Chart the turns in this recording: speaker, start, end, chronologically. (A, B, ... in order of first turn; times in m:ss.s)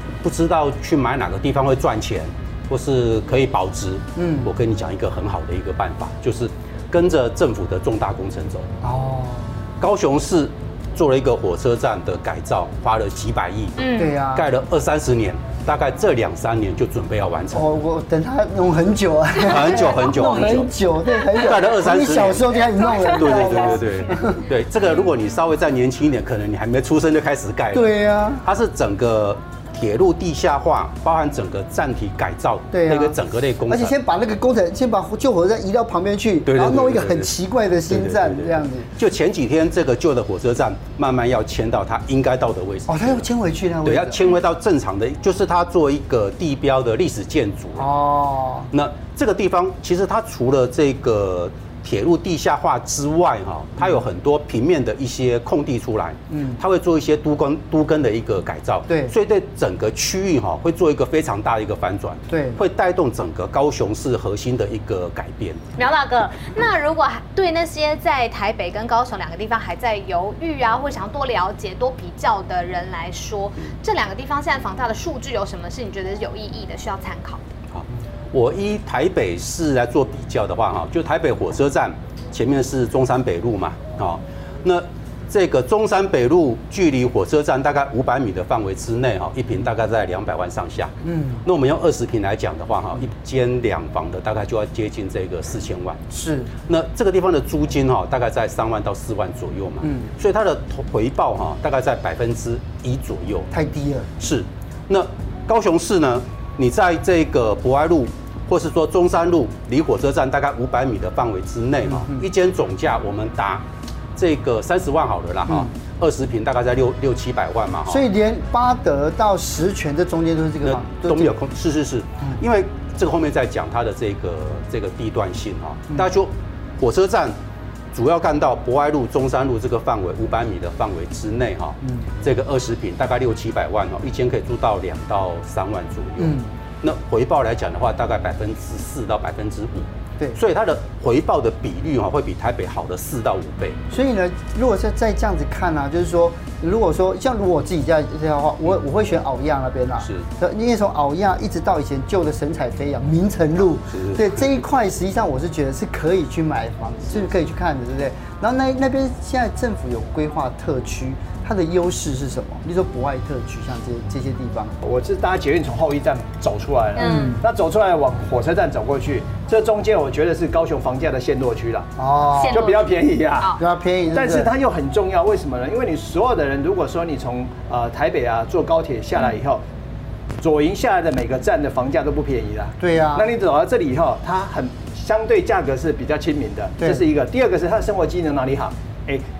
0:00.2-0:08.7 A
0:04.2-0:04.5 B
0:08.8-0:09.5 B
0:09.8-0:13.8 A
0:13.8-0:14.2 C
0:14.0-0:14.5 B
0:14.3-0:17.7 A
0:17.5-0:24.4 B
0:19.4-0:20.7 A
0:19.8-0:20.5 C
0:21.3-0:34.0 A
0:27.7-0:28.4 B
0:32.7-0:33.2 B
0:33.7-0:38.9 B
0:36.5-0:37.3 A
0:37.9-0:43.2 A
0:42.9-0:44.2 B
0:43.8-0:47.9 A
0:47.8-0:48.7 B
0:48.7-1:05.6 A
0:56.3-0:56.6 B
0:58.9-0:59.1 B
1:02.3-1:02.6 B
1:05.8-1:17.4 C
1:17.7-1:36.0 A
1:31.0-1:31.4 B
1:36.1-1:36.5 B
1:36.7-1:43.5 A
1:39.8-1:40.1 B
1:43.5-1:44.1 B
1:44.2-1:53.6 A
1:51.8-1:52.2 B
1:54.2-1:58.0 A
1:57.9-2:01.3 B
2:00.6-2:07.3 A
2:07.9-2:23.8 A
2:11.8-2:12.1 B
2:16.2-2:16.5 B
2:23.9-2:44.8 B
2:33.9-2:34.2 A
2:44.8-2:51.9 D
2:47.0-2:47.4 C
2:47.0-2:47.4 B
2:52.0-2:52.8 B
2:52.3-2:53.6 C
2:52.5-2:53.6 D
2:53.5-2:54.5 B
2:54.1-2:59.6 D
3:00.4-3:09.2 D
3:02.8-3:03.3 B